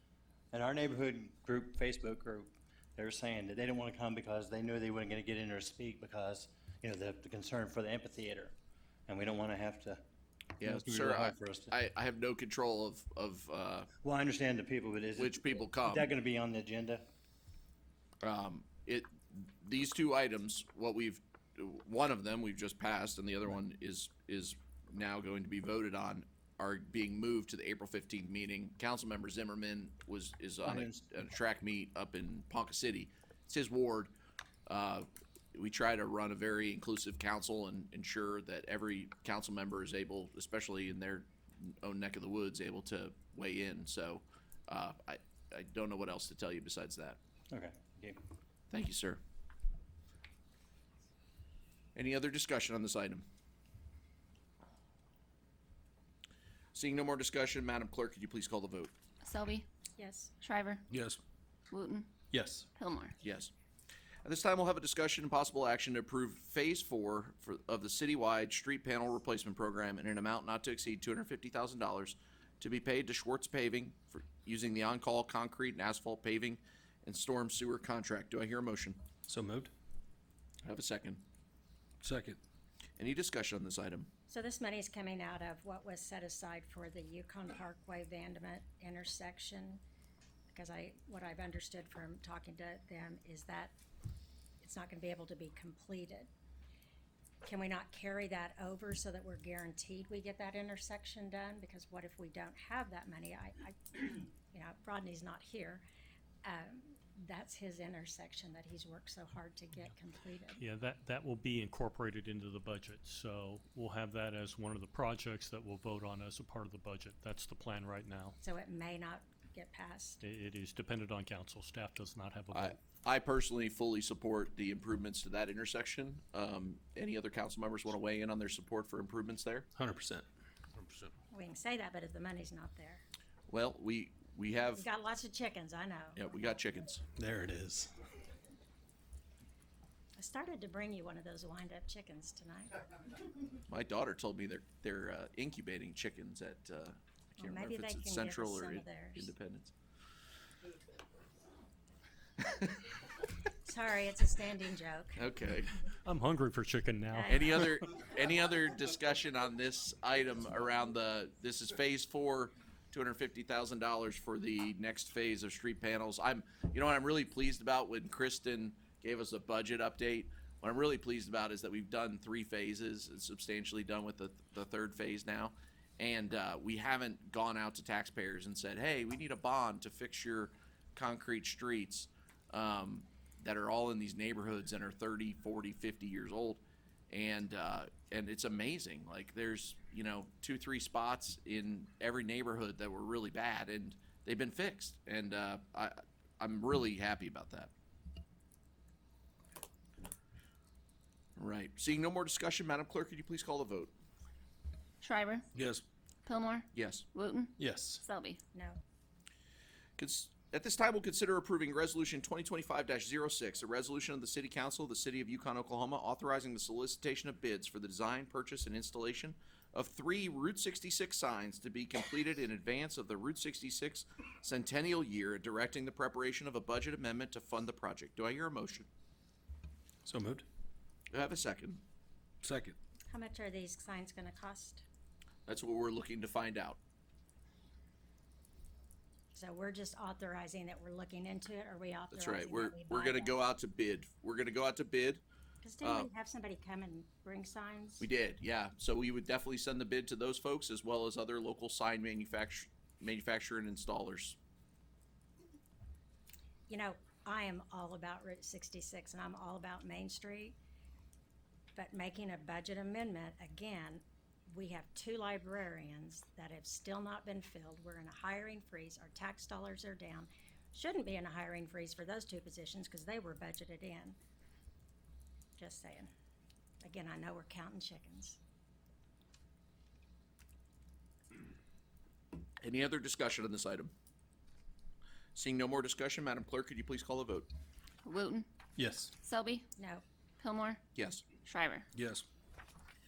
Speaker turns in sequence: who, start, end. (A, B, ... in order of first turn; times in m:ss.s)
0:00.5-0:08.5 A
0:09.1-0:10.0 A
0:10.6-0:11.7 A
0:10.6-0:13.9 B
0:14.0-0:17.0 A
0:15.2-0:16.1 B
0:18.2-0:34.1 B
0:30.6-0:31.1 A
0:34.6-0:47.2 B
0:47.5-0:48.2 A
0:48.7-0:49.2 B
0:51.9-0:53.2 B
0:56.7-0:58.9 B
0:59.2-0:59.6 C
1:00.0-1:00.3 D
1:00.4-1:00.8 C
1:00.9-1:01.2 E
1:01.7-1:02.1 C
1:02.3-1:02.7 E
1:02.8-1:03.1 C
1:03.2-1:03.5 B
1:04.2-1:19.0 B
1:19.3-1:19.7 E
1:20.6-1:21.2 B
1:22.0-1:22.4 E
1:23.0-1:24.1 B
1:24.3-1:29.8 D
1:30.5-1:33.8 D
1:34.6-1:36.3 D
1:37.4-1:45.8 D
1:46.4-1:50.6 D
1:50.6-1:58.3 F
1:58.4-2:00.2 D
2:00.2-2:02.8 F
2:02.5-2:09.7 B
2:09.7-2:10.2 E
2:10.8-2:11.1 E
2:11.3-2:13.0 D
2:13.5-2:14.8 B
2:14.7-2:16.2 D
2:16.1-2:17.0 B
2:17.2-2:17.9 E
2:20.2-2:22.7 D
2:23.7-2:29.7 B
2:27.4-2:29.3 D
2:33.6-2:35.2 D
2:35.2-2:35.7 B
2:36.0-2:37.7 F
2:37.1-2:37.5 D
2:37.3-3:17.7 B
3:21.4-3:23.9 B
3:25.0-3:25.5 C
3:25.5-3:25.8 E
3:26.2-3:28.4 C
3:26.7-3:27.0 B
3:27.6-3:28.0 E
3:28.5-3:28.8 D
3:30.0-3:48.9 B
3:50.0-3:50.4 E
3:51.1-3:51.8 B
3:52.4-3:52.8 E
3:53.1-3:54.8 D
3:55.5-3:56.8 B
3:59.3-4:03.4 D
4:02.1-4:05.2 B
4:05.6-4:08.0 D
4:05.8-4:06.1 B
4:08.0-4:14.4 B
4:16.7-4:20.6 D
4:21.7-4:34.2 D
4:35.6-4:36.1 D
4:36.8-4:38.4 D
4:42.6-4:43.9 B
4:45.3-4:47.5 B
4:48.0-4:48.4 C
4:48.8-4:49.1 E
4:49.2-4:49.6 C
4:49.8-4:50.0 D
4:50.4-4:50.8 C
4:50.9-4:51.2 B
4:51.4-4:51.8 C
4:51.9-4:52.2 E